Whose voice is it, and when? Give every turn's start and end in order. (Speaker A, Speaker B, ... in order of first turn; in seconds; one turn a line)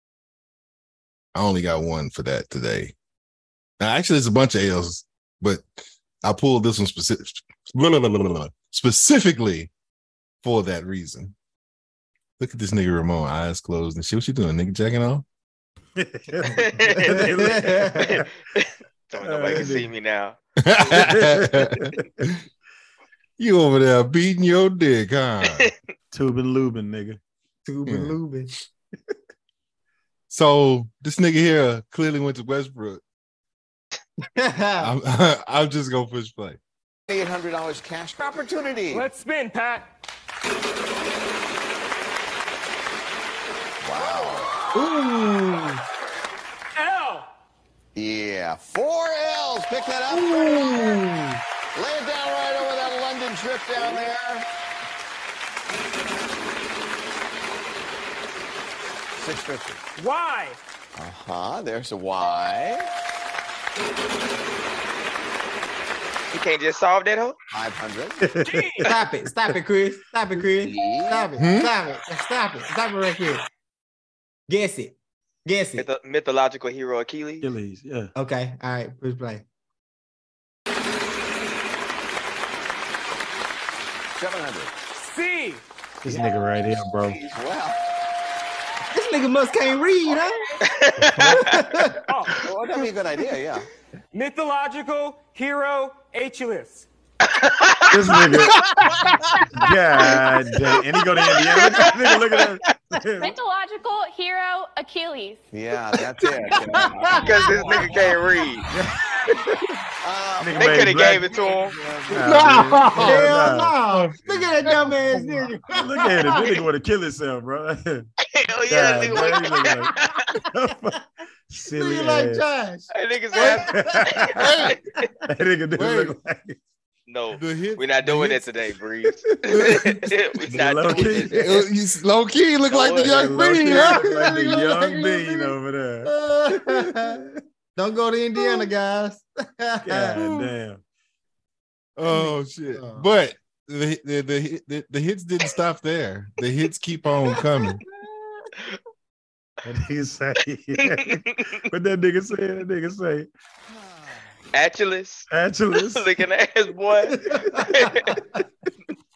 Speaker A: 1.3-2.9
Speaker A: 3.8-9.7
Speaker A: 10.4-11.3
Speaker A: 12.4-15.2
Speaker B: 16.0-18.3
Speaker C: 16.5-20.4
Speaker D: 17.1-18.1
Speaker B: 19.2-19.9
Speaker A: 20.6-22.4
Speaker B: 20.9-22.0
Speaker A: 23.4-25.7
Speaker B: 26.1-27.2
Speaker D: 27.6-28.5
Speaker A: 27.9-28.1
Speaker A: 30.3-33.0
Speaker D: 34.3-34.9
Speaker A: 34.8-36.6
Speaker E: 37.1-39.1
Speaker F: 38.9-39.9
Speaker E: 43.8-44.5
Speaker D: 44.7-45.8
Speaker F: 46.8-47.3
Speaker E: 47.9-51.0
Speaker D: 50.3-51.2
Speaker E: 51.7-54.4
Speaker E: 59.1-59.8
Speaker F: 60.0-60.6
Speaker E: 61.0-62.9
Speaker C: 66.3-67.3
Speaker E: 67.5-68.4
Speaker B: 68.2-68.8
Speaker F: 68.4-68.9
Speaker D: 68.8-73.4
Speaker E: 70.5-71.4
Speaker A: 71.4-71.7
Speaker D: 74.5-74.9
Speaker D: 75.5-75.9
Speaker C: 75.8-77.5
Speaker B: 77.4-78.1
Speaker D: 78.2-79.4
Speaker E: 84.1-84.7
Speaker F: 85.0-85.6
Speaker B: 86.0-87.2
Speaker E: 86.1-87.8
Speaker D: 88.9-90.4
Speaker C: 90.6-91.6
Speaker B: 91.0-91.4
Speaker D: 91.2-92.0
Speaker F: 92.1-92.4
Speaker E: 92.4-93.7
Speaker F: 94.1-96.9
Speaker C: 97.2-98.3
Speaker B: 97.9-98.6
Speaker B: 99.5-103.3
Speaker C: 101.2-102.5
Speaker G: 103.2-105.4
Speaker E: 105.5-108.2
Speaker D: 106.7-107.3
Speaker C: 107.2-108.7
Speaker B: 108.7-109.7
Speaker E: 110.0-112.5
Speaker B: 110.4-111.3
Speaker C: 110.5-111.8
Speaker B: 112.1-113.8
Speaker A: 112.1-113.4
Speaker D: 112.9-116.6
Speaker A: 113.9-114.7
Speaker B: 115.1-118.1
Speaker C: 118.3-120.1
Speaker B: 118.7-119.9
Speaker D: 119.2-119.7
Speaker B: 120.5-122.4
Speaker D: 121.7-124.1
Speaker C: 122.9-124.8
Speaker B: 123.5-124.3
Speaker A: 124.3-124.8
Speaker B: 125.3-126.6
Speaker A: 125.8-126.2
Speaker C: 127.1-131.6
Speaker A: 127.3-128.5
Speaker A: 129.5-130.1
Speaker B: 130.4-131.6
Speaker A: 131.2-135.2
Speaker C: 132.7-133.5
Speaker B: 133.0-137.2
Speaker D: 136.0-137.2
Speaker D: 137.8-140.2
Speaker B: 139.8-140.8
Speaker A: 140.2-140.5
Speaker A: 142.0-147.8
Speaker D: 142.0-143.1
Speaker B: 149.6-153.3
Speaker C: 150.8-151.4
Speaker E: 153.7-154.3
Speaker C: 154.5-158.1
Speaker B: 155.3-156.1
Speaker D: 157.2-158.4